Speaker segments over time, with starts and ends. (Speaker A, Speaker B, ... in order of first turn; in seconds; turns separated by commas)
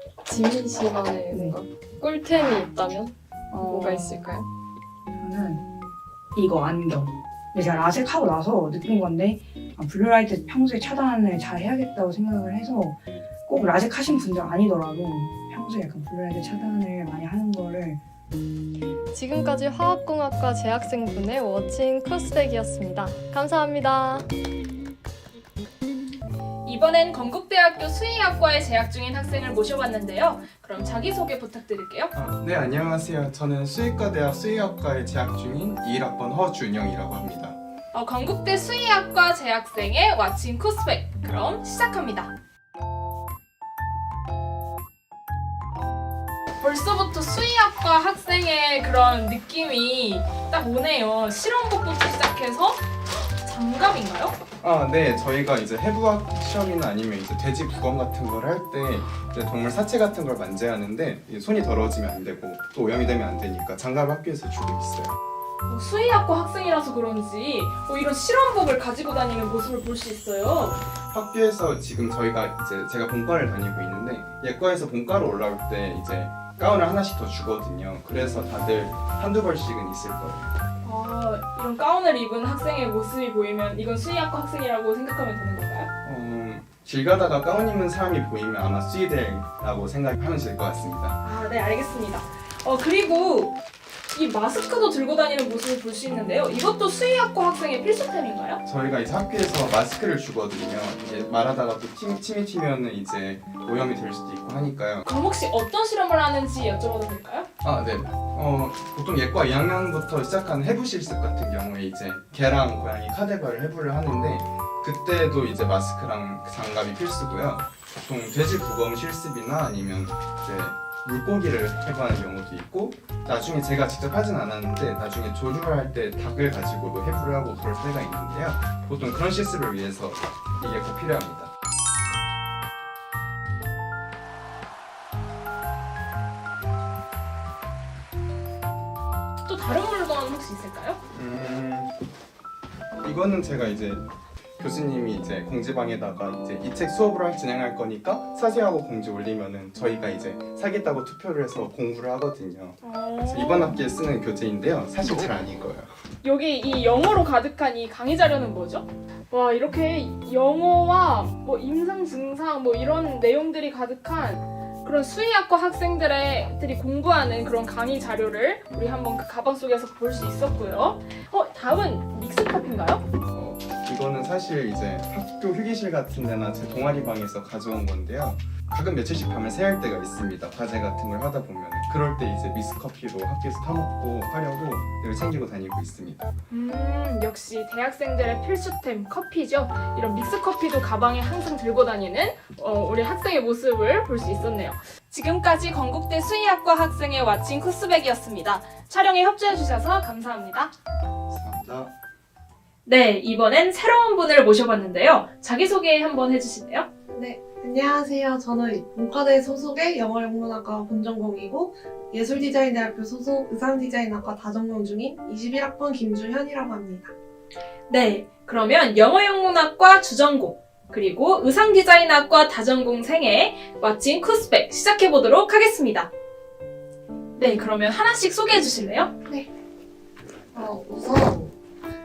Speaker A: 0.3-4.5, Speaker B: 1.3-1.6, Speaker B: 3.5-4.3, Speaker B: 5.1-5.6, Speaker B: 6.3-18.0, Speaker A: 19.1-24.3, Speaker C: 26.6-32.1, Speaker D: 32.1-37.6, Speaker C: 37.9-42.3, Speaker C: 46.6-54.4, Speaker D: 54.6-65.2, Speaker C: 65.7-70.8, Speaker D: 71.1-80.5, Speaker C: 80.8-85.9, Speaker D: 86.0-91.2, Speaker C: 91.2-93.6, Speaker C: 94.1-98.6, Speaker D: 98.6-105.0, Speaker C: 105.0-107.5, Speaker D: 107.6-131.5, Speaker C: 139.4-141.0, Speaker D: 141.1-141.9, Speaker D: 143.0-144.1, Speaker D: 144.6-155.9, Speaker C: 152.8-153.8, Speaker C: 156.2-173.0, Speaker D: 173.2-186.3, Speaker C: 186.5-200.7, Speaker D: 201.3-201.9, Speaker C: 202.8-206.9, Speaker E: 207.1-217.1, Speaker C: 217.9-226.1, Speaker C: 227.4-229.1, Speaker E: 230.5-231.5